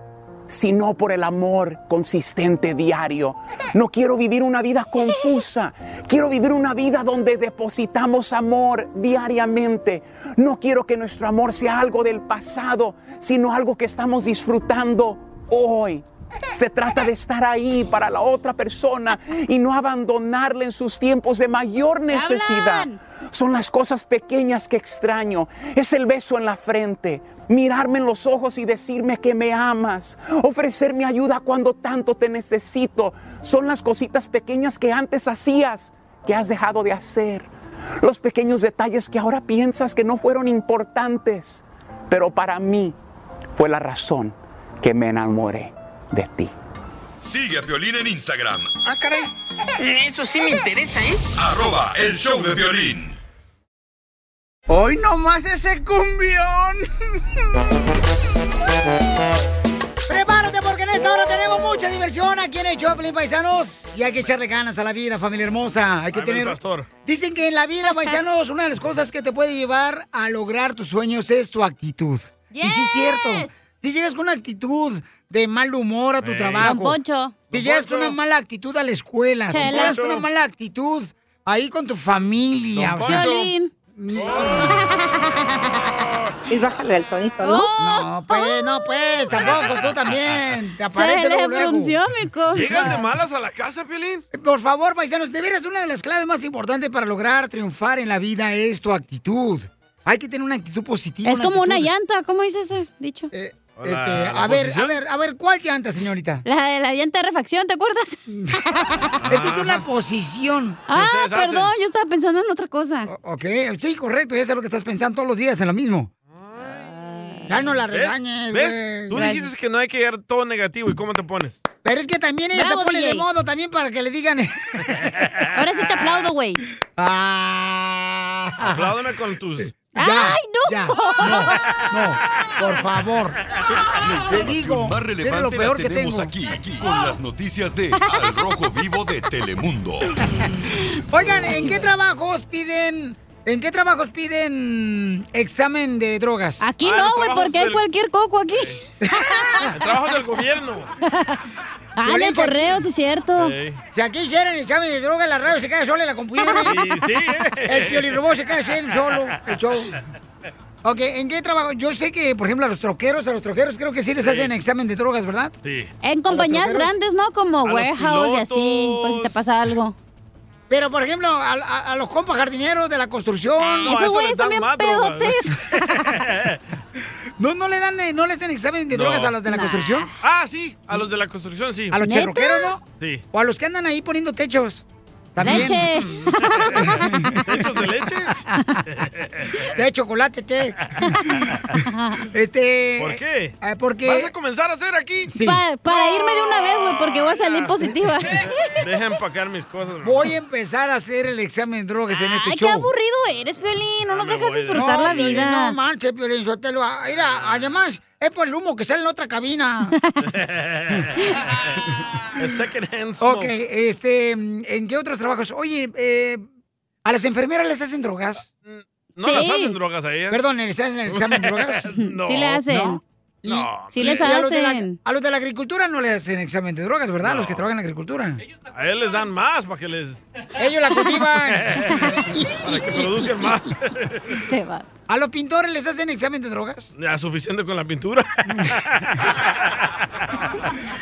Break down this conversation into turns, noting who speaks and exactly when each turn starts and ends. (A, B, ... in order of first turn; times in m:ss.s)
0:00.5-0:37.5 A
0:22.1-0:23.0 B
0:38.0-0:42.9 A
0:43.5-0:46.5 A
0:47.2-0:48.8 C
0:49.8-0:51.2 D
0:51.3-0:53.2 C
0:54.7-0:56.8 D
1:00.1-1:17.0 E
1:06.1-1:06.9 F
1:07.8-1:08.2 B
1:12.5-1:13.6 B
1:16.2-1:16.7 F
1:16.6-1:17.4 B
1:17.5-1:18.2 F
1:17.5-1:24.7 E
1:19.5-1:20.0 B
1:19.5-1:20.2 F
1:22.7-1:23.4 F
1:23.0-1:23.7 B
1:24.2-1:24.7 F
1:24.6-1:25.2 B
1:27.4-1:28.8 B
1:27.8-1:32.0 E
1:29.4-1:30.0 F
1:30.9-1:33.0 B
1:32.5-1:34.2 F
1:34.3-1:41.9 E
1:41.2-1:43.3 B
1:43.3-1:46.4 E
1:43.8-1:44.9 F
1:46.4-1:49.2 B
1:48.3-1:48.6 E
1:49.2-1:49.8 F
1:49.2-1:50.8 E
1:50.9-1:53.1 B
1:50.9-1:51.7 F
1:53.0-1:56.1 E
1:56.3-1:57.0 F
1:57.5-1:59.2 E
1:57.9-2:01.6 F
1:59.1-1:59.5 B
2:01.8-2:05.0 E
2:02.5-2:03.2 B
2:05.5-2:06.6 B
2:07.0-2:08.9 E
2:08.6-2:09.7 F
2:09.8-2:13.4 E
2:09.9-2:11.6 B
2:14.0-2:20.1 C
2:14.3-2:16.3 E
2:18.0-2:18.4 B
2:21.1-2:26.7 E
2:26.6-2:29.7 B
2:26.8-2:27.8 F
2:29.0-2:29.7 E
2:29.7-2:30.9 F
2:31.0-2:31.4 B
2:32.0-2:33.5 B
2:32.0-2:32.8 E
2:33.4-2:33.8 F
2:33.9-2:36.8 E
2:36.4-2:36.8 B
2:36.6-2:38.2 F
2:37.7-2:40.0 E
2:40.8-2:45.5 E
2:44.2-2:44.5 F
2:45.6-2:45.9 F
2:46.0-2:49.9 B
2:46.3-2:46.9 E
2:47.6-2:49.4 F
2:50.7-2:54.0 E
2:53.6-2:56.6 F
2:53.8-2:55.5 B
2:57.4-3:00.1 E
2:58.9-2:59.4 F
2:59.4-3:00.2 B
3:00.2-3:02.0 F
3:01.9-3:02.8 E
3:02.0-3:02.7 B
3:03.3-3:04.8 E
3:05.3-3:06.1 E
3:05.4-3:07.1 B
3:05.4-3:05.7 F
3:06.7-3:07.7 E
3:07.4-3:08.3 F
3:08.3-3:08.6 E
3:09.6-3:14.3 E
3:13.0-3:15.3 F
3:15.3-3:15.6 E
3:15.4-3:18.8 B
3:16.5-3:18.0 F
3:18.7-3:20.3 F
3:20.0-3:22.9 E
3:22.1-3:25.8 B
3:24.0-3:25.5 F
3:24.7-3:30.0 E
3:30.2-3:31.2 F
3:32.4-3:33.5 F
3:33.2-3:36.4 E
3:37.0-3:38.4 E
3:38.6-3:40.4 F
3:39.2-3:39.8 B
3:40.3-3:41.9 E
3:41.1-3:42.6 F
3:41.9-3:43.0 B
3:42.6-3:48.4 E
3:43.4-3:44.1 F
3:43.9-3:45.0 B
3:47.2-3:47.6 F
3:48.7-3:50.2 F
3:50.6-3:53.1 E
3:51.5-3:52.0 F
3:52.6-3:54.4 F
3:54.3-3:54.9 B
3:55.1-3:56.9 E
3:57.0-3:59.3 F
3:58.5-3:58.8 E